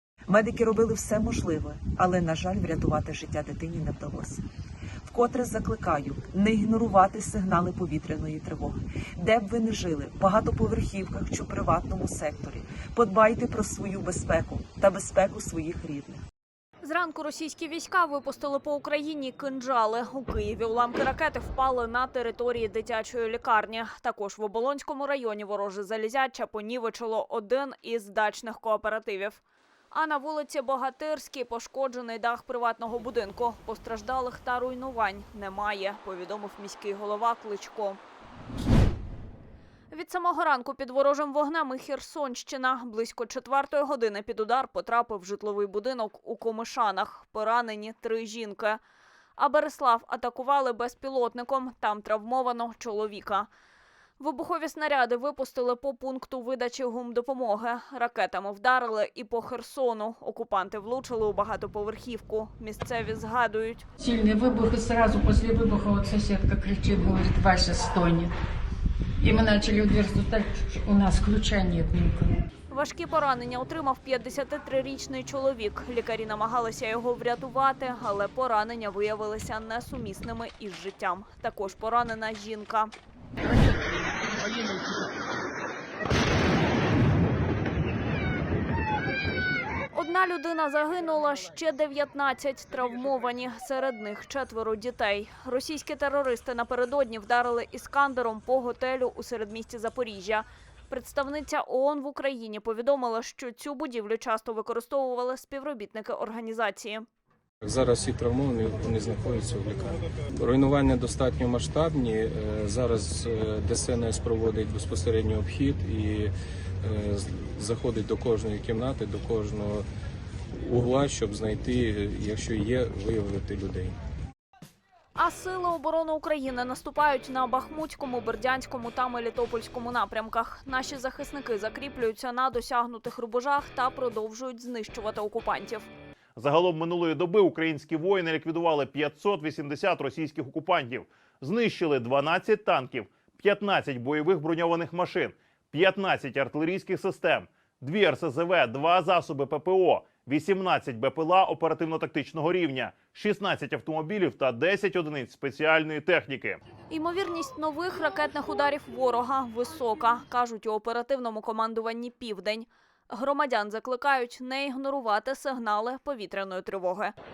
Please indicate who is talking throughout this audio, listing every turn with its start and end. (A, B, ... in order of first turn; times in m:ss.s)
0:00.3-0:04.4 A
0:05.0-0:16.2 A
0:16.8-0:38.0 B
0:39.9-0:48.8 B
0:49.4-0:53.5 B
0:54.2-1:03.8 B
1:04.0-1:08.3 C
1:09.2-1:12.3 C
1:12.7-1:22.9 B
1:29.9-1:47.0 B
1:47.6-1:56.3 D
1:56.8-1:59.8 D
2:00.5-2:04.0 D
2:05.2-2:15.9 B
2:16.4-2:36.6 E
2:36.9-2:47.1 B